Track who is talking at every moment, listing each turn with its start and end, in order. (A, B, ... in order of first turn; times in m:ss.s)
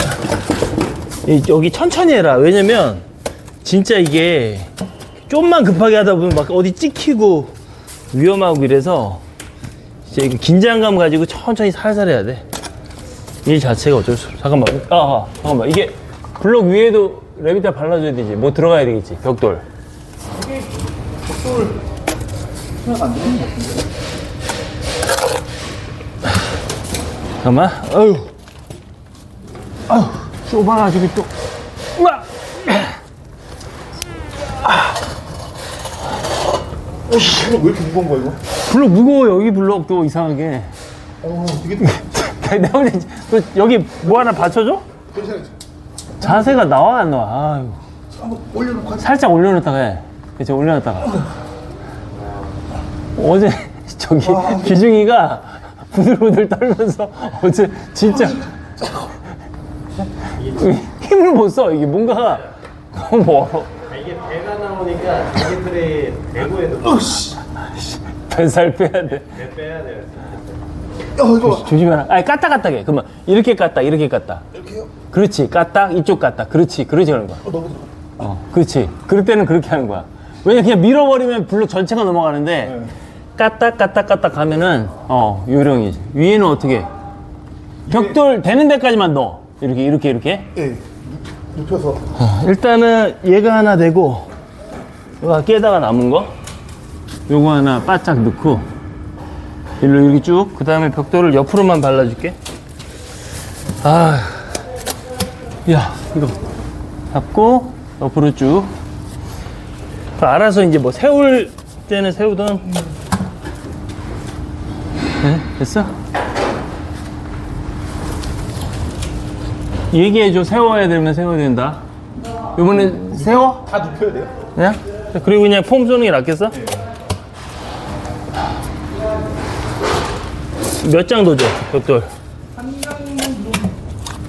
0:01.2-0:03.0 A
0:03.6-0:04.7 A
0:05.3-0:07.5 A
0:08.1-0:09.2 A
0:10.0-0:12.4 A
0:13.4-0:19.6 A
0:21.3-0:21.7 B
0:22.8-0:23.5 B
0:27.4-0:28.3 A
0:29.9-0:31.3 A
0:32.0-0:33.0 A
0:37.1-0:38.4 B
0:38.5-0:40.7 A
0:41.2-0:41.9 B
0:41.8-0:44.8 A
0:45.1-0:45.5 B
0:46.2-0:47.8 A
0:48.2-0:49.0 B
0:48.9-0:51.2 A
0:53.2-0:59.1 A
1:00.4-1:03.8 A
1:03.9-1:07.0 C
1:06.9-1:07.4 B
1:07.6-1:09.5 A
1:09.5-1:10.4 C
1:11.2-1:11.5 B
1:11.2-1:14.5 A
1:15.1-1:17.6 A
1:17.5-1:17.8 B
1:18.2-1:26.9 A
1:27.9-1:30.6 A
1:30.6-1:31.0 B
1:31.5-1:32.0 B
1:32.1-1:34.3 A
1:35.2-1:36.4 A
1:37.3-1:38.7 A
1:39.8-1:42.4 A
1:43.8-1:44.6 A
1:45.6-1:46.4 A
1:47.1-1:48.7 A
1:50.2-1:52.8 A
1:55.2-1:55.9 A
1:59.9-2:01.8 A
2:02.5-2:03.7 A
2:03.6-2:04.3 B
2:04.5-2:06.7 A
2:10.7-2:12.1 A